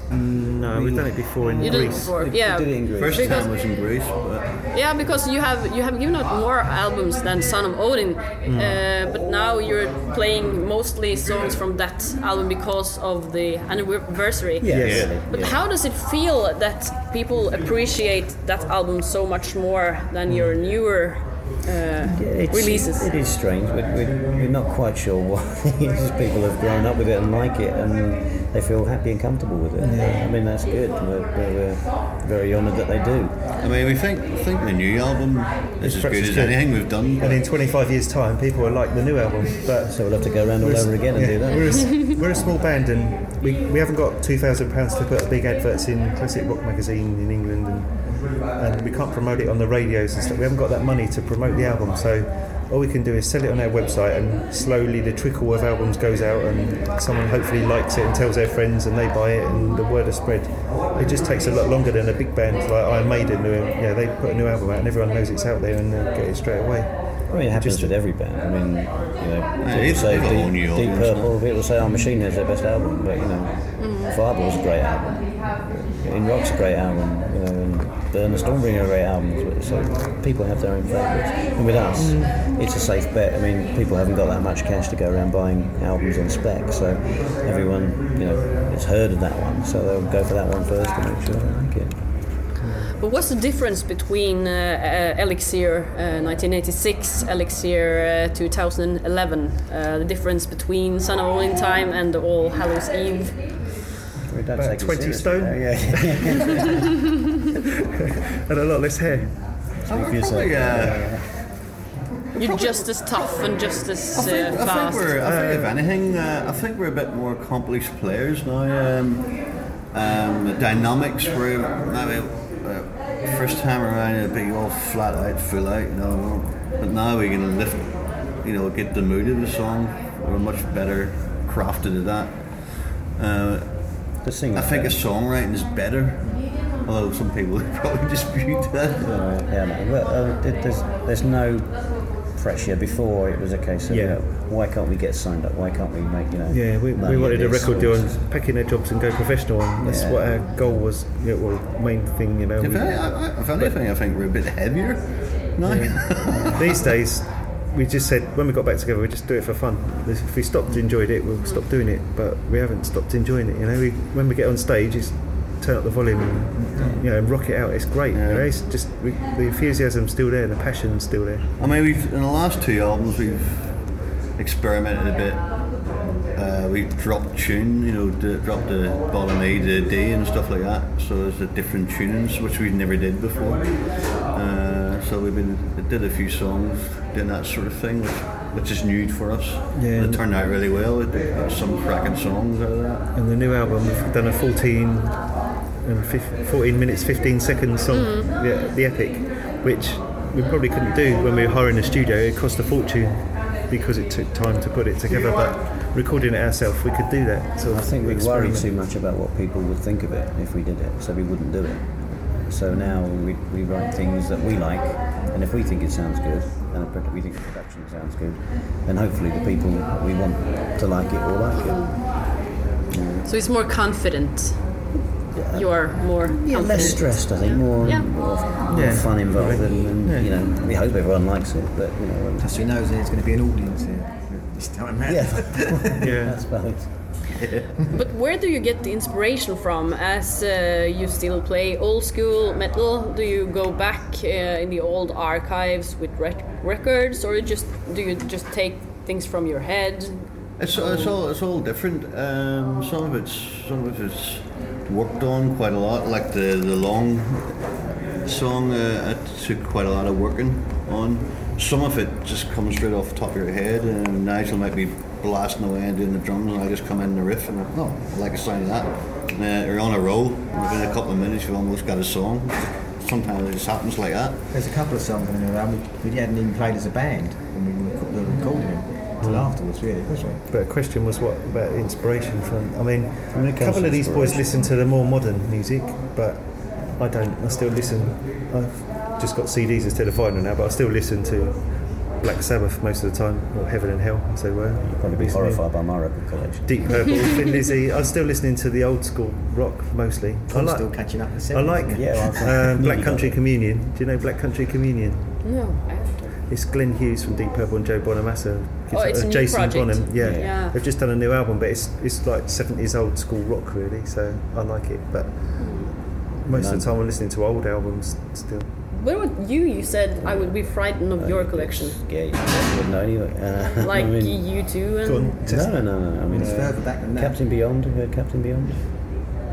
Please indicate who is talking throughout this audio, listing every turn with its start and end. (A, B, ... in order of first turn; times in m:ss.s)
0:00.1-0:02.2 A
0:00.6-0:03.5 B
0:01.6-0:03.9 C
0:03.0-0:04.6 D
0:04.7-0:23.1 C
0:08.4-0:08.8 A
0:14.6-0:15.6 B
0:14.7-0:15.2 A
0:14.7-0:15.1 D
0:20.3-0:20.6 A
0:22.0-0:33.4 B
0:29.8-0:30.3 A
0:33.6-0:37.5 D
0:35.8-1:08.0 A
0:39.9-0:42.6 B
0:59.4-0:59.8 C
1:07.3-1:32.1 B
1:09.6-1:11.5 D
1:13.8-1:14.2 C
1:22.0-1:22.4 A
1:32.6-1:32.9 A
1:33.0-1:43.8 C
1:44.3-1:46.7 B
1:44.6-1:46.6 A
1:48.5-1:49.8 A
1:49.8-1:51.4 D
1:49.8-1:51.4 B
1:50.8-1:51.1 A
1:52.4-1:53.5 D
1:52.4-1:55.2 C
1:54.1-2:19.2 D
1:55.2-1:55.8 A
2:14.2-2:15.1 B
2:19.0-2:28.3 B
2:23.9-2:24.2 A
2:26.5-2:33.8 A
2:29.8-2:30.5 B
2:30.3-2:30.5 C
2:32.6-2:36.9 D
2:35.6-2:51.6 A
2:36.3-2:36.6 B
2:41.3-2:41.6 C
2:48.1-2:48.6 D
2:51.6-3:13.1 D
3:09.7-3:10.3 A
3:13.1-3:28.7 A
3:17.9-3:18.3 C
3:27.7-3:42.2 B
3:41.5-3:42.2 C
3:42.9-3:43.3 B
3:43.2-3:48.2 C
3:45.2-3:52.5 B
3:48.7-3:50.3 A
3:52.4-3:56.2 E
3:55.0-3:57.3 B
3:56.0-3:56.5 A
3:57.3-3:57.8 D
3:57.9-4:11.2 C
4:10.6-4:34.4 D
4:34.5-4:40.5 E
4:39.2-5:05.4 A
4:43.3-4:44.7 B
4:54.8-4:57.3 B
5:00.5-5:02.5 E
5:01.9-5:03.5 B
5:05.4-5:06.4 C
5:06.5-5:18.7 A
5:08.9-5:10.8 C
5:10.2-5:10.6 B
5:15.6-5:16.0 C
5:16.5-5:17.0 B
5:18.9-5:22.0 C
5:20.2-5:24.8 B
5:23.8-5:25.4 C
5:25.0-5:26.8 A
5:25.4-5:28.9 B
5:26.3-5:27.4 E